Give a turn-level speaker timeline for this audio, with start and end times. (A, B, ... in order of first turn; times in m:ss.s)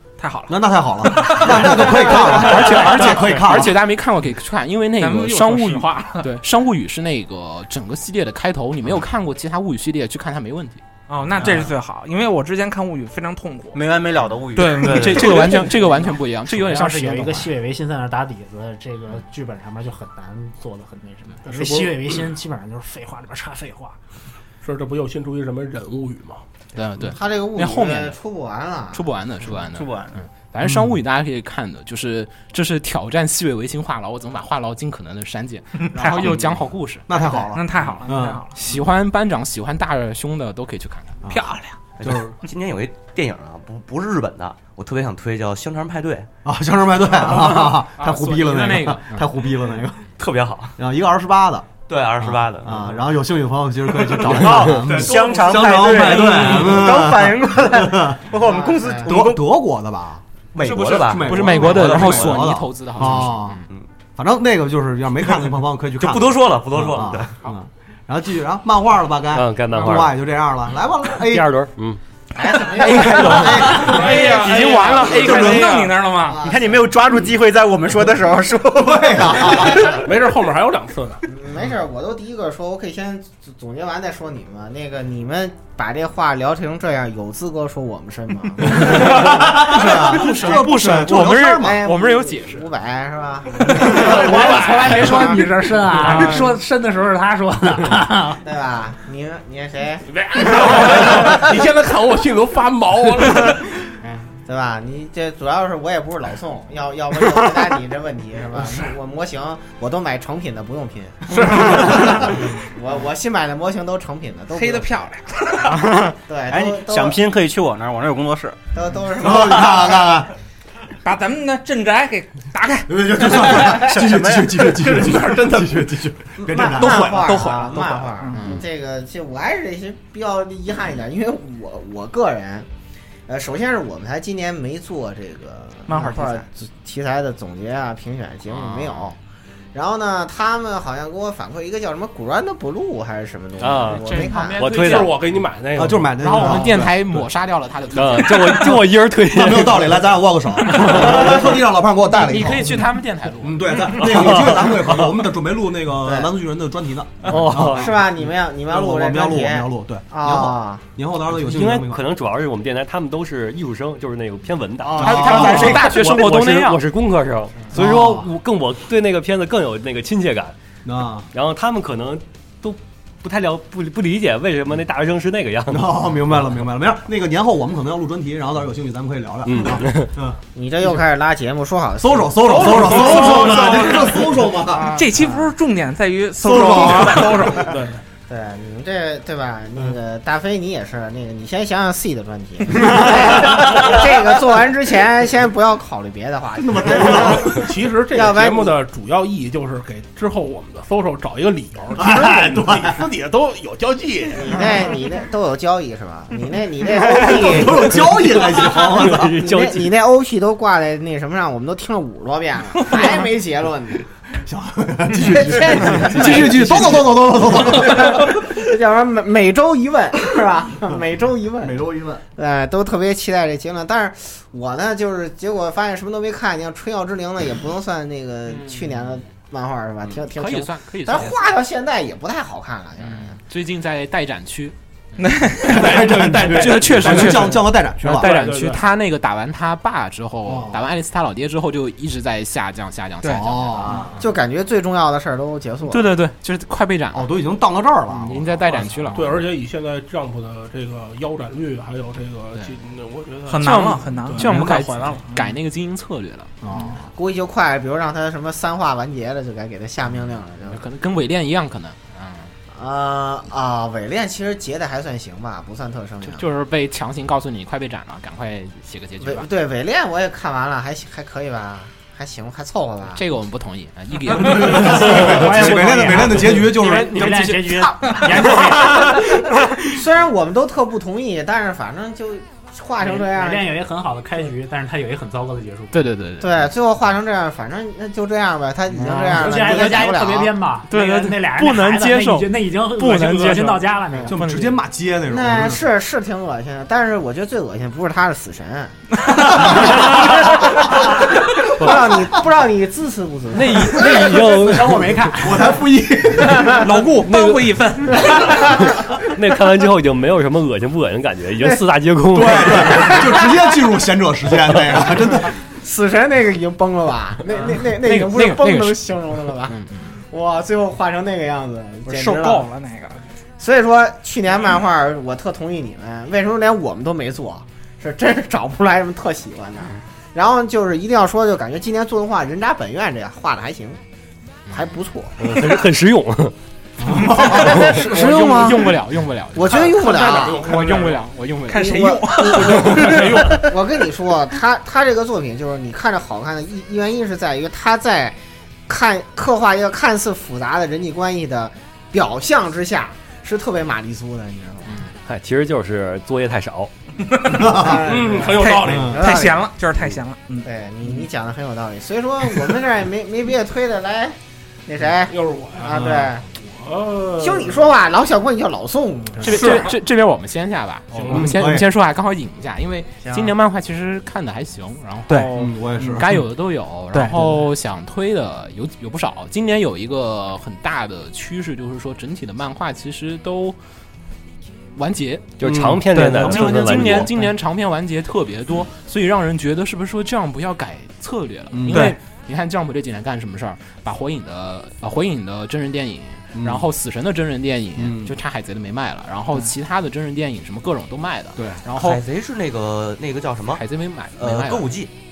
0:00.2-0:03.0 A
0:00.5-0:03.8 B
0:02.3-0:10.8 C
0:02.3-0:03.4 D
0:05.0-0:06.3 A
0:11.1-0:13.8 A
0:11.4-0:11.7 E
0:13.7-0:15.5 E
0:14.6-0:16.1 A
0:14.8-0:15.4 F
0:14.8-0:17.5 C
0:15.8-0:24.0 D
0:21.4-0:22.2 G
0:24.6-0:26.4 G
0:26.8-0:28.2 C
0:27.1-0:29.0 H
0:28.9-0:37.0 C
0:29.6-0:30.2 E
0:30.6-0:31.0 B
0:35.8-0:36.6 E
0:37.1-0:38.4 B
0:37.1-0:38.5 A
0:38.6-0:41.2 C
0:41.2-0:42.4 B
0:41.3-0:41.8 A
0:42.0-0:46.3 F
0:46.4-0:50.1 B
0:48.0-0:49.2 C
0:50.2-0:50.8 F
0:50.8-0:58.2 B
0:51.9-0:53.0 F
0:54.2-0:59.4 E
0:54.3-0:56.9 F
0:58.4-0:59.1 H
0:59.0-1:03.6 B
1:00.6-1:03.9 F
1:01.2-1:03.6 C
1:04.2-1:11.6 B
1:06.0-1:07.4 F
1:09.3-1:10.2 I
1:11.2-1:12.0 I
1:12.4-1:13.7 H
1:12.9-1:14.1 B
1:13.7-1:15.6 G
1:13.8-1:15.9 C
1:13.8-1:16.4 A
1:15.0-1:16.9 B
1:16.4-1:19.6 E
1:18.7-1:19.9 B
1:19.6-1:21.2 G
1:21.3-1:30.9 H
1:28.7-1:31.8 B
1:28.7-1:32.7 C
1:31.5-1:35.4 H
1:33.8-1:38.4 D
1:33.9-1:35.2 G
1:36.0-1:36.3 C
1:36.0-1:36.4 G
1:38.4-1:40.0 H
1:40.1-1:43.7 G
1:44.4-1:54.9 H
1:51.4-1:52.3 B
1:54.5-1:55.6 A
1:55.6-1:58.6 E
1:56.2-1:57.2 H
1:58.7-2:00.0 H
1:59.2-2:00.3 B
2:01.0-2:03.7 A
2:02.9-2:07.5 B
2:04.0-2:04.5 E
2:04.7-2:06.0 G
2:06.4-2:12.7 H
2:06.7-2:08.5 A
2:13.3-2:19.2 H
2:15.9-2:16.4 A
2:18.5-2:19.2 C
2:19.7-2:24.6 H
2:23.6-2:24.1 I
2:23.8-2:25.2 C
2:24.6-2:25.1 I
2:24.6-2:26.6 G
2:25.8-2:27.2 B
2:26.2-2:28.8 C
2:27.9-2:30.1 I
2:29.1-2:32.8 B
2:30.7-2:31.4 C
2:32.1-2:34.0 C
2:33.4-2:42.1 B
2:34.0-2:35.1 I
2:37.3-2:38.0 I
2:37.7-2:40.8 H
2:41.4-2:50.6 I
2:44.8-2:46.2 B
2:45.0-2:46.8 C
2:47.7-2:48.3 B
2:50.8-2:51.3 B
2:51.3-2:56.0 I
2:55.7-3:00.4 B
2:59.5-3:00.1 I
3:00.5-3:02.6 H
3:02.0-3:05.0 B
3:02.7-3:04.1 G
3:03.1-3:03.4 A
3:04.9-3:07.7 A
3:06.4-3:07.6 B
3:06.8-3:08.0 G
3:08.3-3:18.8 H
3:12.8-3:14.0 B
3:16.6-3:17.7 B
3:17.0-3:24.9 G
3:22.0-3:23.0 B
3:24.4-3:34.0 H
3:26.9-3:29.4 B
3:28.8-3:29.9 I
3:34.4-3:38.4 B
3:35.2-3:41.8 H
3:41.6-3:42.2 B
3:42.4-3:53.4 H
3:48.5-3:48.9 C
3:50.2-3:51.4 C
3:53.0-3:54.8 C
3:55.2-3:56.2 A
3:55.6-3:58.3 B
3:55.7-3:58.8 G
3:56.6-4:04.2 C
4:00.5-4:00.8 B
4:03.3-4:04.2 B
4:04.1-4:06.1 H
4:05.9-4:07.3 C
4:07.1-4:09.2 B
4:08.1-4:09.4 C
4:09.1-4:14.5 G
4:13.5-4:15.5 A
4:13.6-4:16.5 C
4:14.4-4:14.8 B
4:16.6-4:17.1 B
4:17.2-4:20.8 H
4:20.7-4:22.5 C
4:22.7-4:26.4 H
4:26.2-4:29.5 C
4:29.2-4:33.2 H
4:33.2-4:39.1 C
4:34.3-4:37.4 B
4:34.7-4:39.2 D
4:39.8-4:43.7 H
4:43.0-4:46.1 D
4:45.9-4:46.7 C
4:46.4-4:50.5 H
4:49.0-4:50.1 C
4:49.1-4:54.5 D
4:50.9-4:54.8 C
4:54.3-4:55.8 B
4:55.3-5:00.9 H
4:59.3-5:00.8 B
5:01.8-5:04.1 H
5:01.8-5:02.2 I
5:03.5-5:05.3 I
5:03.9-5:05.7 D
5:05.2-5:07.3 B
5:06.4-5:08.6 A
5:07.2-5:07.9 I
5:09.4-5:13.3 I
5:11.6-5:11.8 H
5:12.3-5:15.5 B
5:12.9-5:13.2 H
5:15.8-5:19.8 H
5:17.8-5:20.1 C
5:20.3-5:22.7 H
5:22.1-5:23.2 A
5:23.6-5:34.0 H
5:34.7-5:35.4 H
5:35.4-5:36.6 I
5:37.0-5:38.0 B
5:37.2-5:42.1 C
5:37.3-5:39.0 H
5:39.5-5:40.7 H
5:40.0-5:40.4 A
5:40.3-5:41.2 G
5:41.7-5:43.7 A
5:41.7-5:48.4 H
5:48.9-5:55.0 H
5:55.2-5:56.9 I
5:57.4-5:57.7 A
5:57.5-5:58.1 B
5:57.8-5:59.7 H
5:57.8-5:59.3 G
5:58.6-6:00.7 A
5:58.8-5:59.2 B
6:00.6-6:06.4 H
6:05.2-6:07.9 G
6:07.4-6:09.6 H
6:09.4-6:23.8 C
6:09.6-6:09.8 A
6:11.1-6:11.7 G
6:11.3-6:11.9 B
6:15.3-6:16.4 A
6:15.5-6:16.3 B
6:17.1-6:17.7 A
6:25.0-6:25.6 C
6:25.6-6:27.3 I
6:25.6-6:27.3 B
6:26.1-6:27.5 A
6:26.2-6:42.2 C
6:31.7-6:32.2 B
6:31.9-6:32.2 A
6:36.6-6:36.9 B
6:38.0-6:38.4 B
6:41.6-6:41.8 B
6:42.0-6:43.8 F
6:43.7-6:44.9 C
6:44.4-6:45.1 F